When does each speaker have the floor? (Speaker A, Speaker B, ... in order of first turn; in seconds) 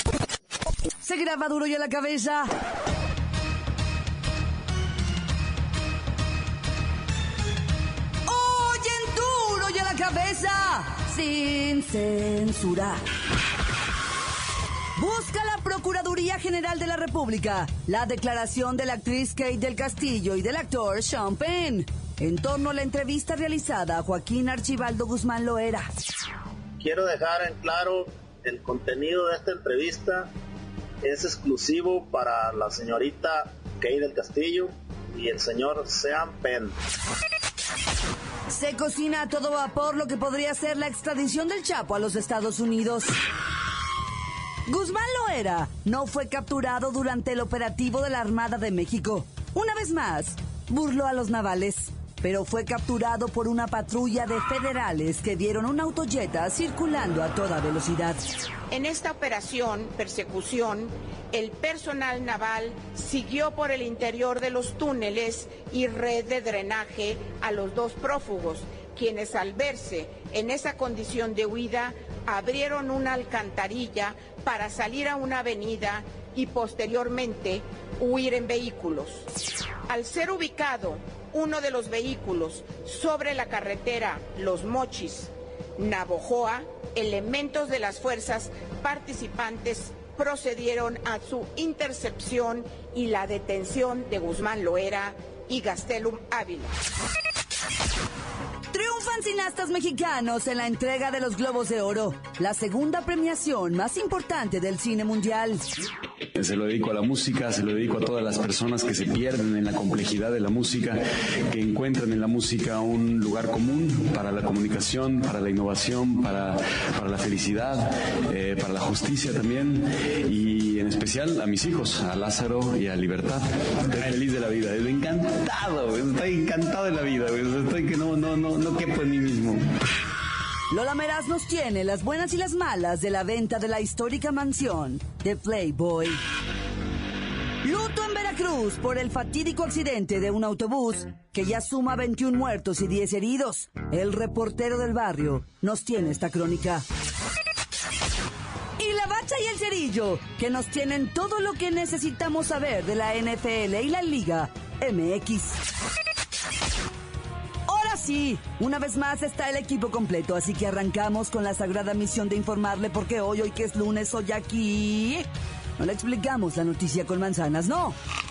Speaker A: 1.0-2.5, 8.3-13.0, 15.0-25.9, 38.5-43.1, 44.7-58.2, 98.7-105.6, 130.7-136.2, 137.6-146.8, 148.8-155.6, 157.7-165.2, 165.8-167.9
Speaker B: 26.8-30.3, 31.0-36.8
Speaker C: 58.7-79.2, 79.9-96.7
Speaker D: 106.4-129.6